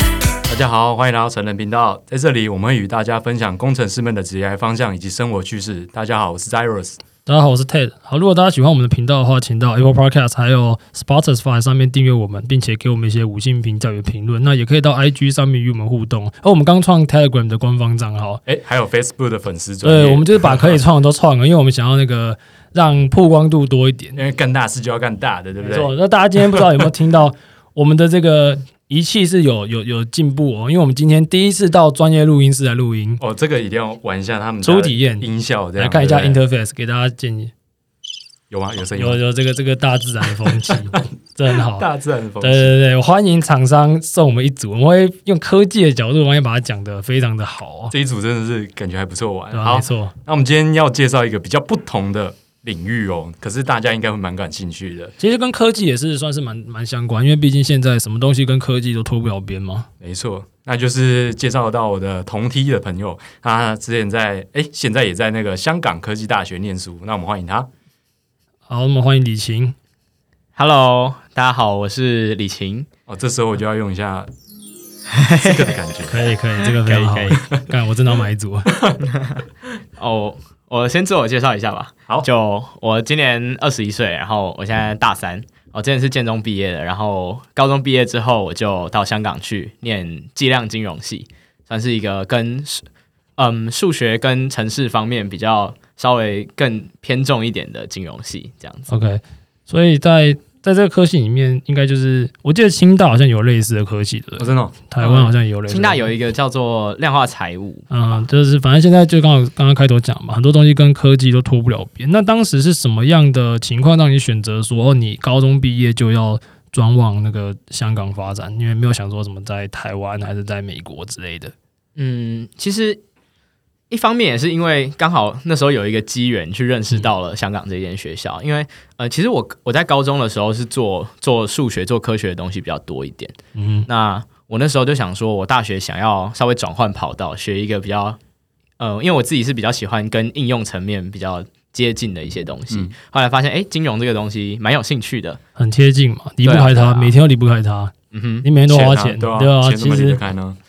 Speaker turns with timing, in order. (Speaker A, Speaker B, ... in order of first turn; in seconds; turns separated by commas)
Speaker A: 0.5-7.0, Speaker B: 7.2-18.4, Speaker A: 18.4-20.8, Speaker B: 19.8-24.2, Speaker A: 24.1-25.9, Speaker B: 25.6-33.2, Speaker A: 26.4-26.9, Speaker A: 33.2-36.4, Speaker B: 34.6-37.5, Speaker A: 38.5-39.2, Speaker B: 39.0-41.9, Speaker A: 41.7-42.7, Speaker B: 42.4-47.9, Speaker A: 47.9-55.1, Speaker B: 49.5-50.1, Speaker B: 55.2-59.9, Speaker A: 60.0-67.7, Speaker B: 68.7-69.7, Speaker C: 70.5-72.9, Speaker A: 73.1-74.3, Speaker C: 75.1-75.8, Speaker A: 75.4-76.2, Speaker B: 76.1-78.7, Speaker C: 76.7-77.5, Speaker C: 80.0-92.8, Speaker C: 93.4-98.9, Speaker B: 98.9-106.1, Speaker A: 104.4-105.2, Speaker C: 105.0-107.9, Speaker B: 107.9-121.5, Speaker C: 122.0-123.0, Speaker C: 123.9-133.3, Speaker B: 133.5-133.9, Speaker C: 133.9-138.2, Speaker C: 138.8-145.4, Speaker A: 142.7-142.9, Speaker B: 145.6-150.2, Speaker C: 146.4-147.2, Speaker C: 148.1-148.5, Speaker A: 148.7-150.6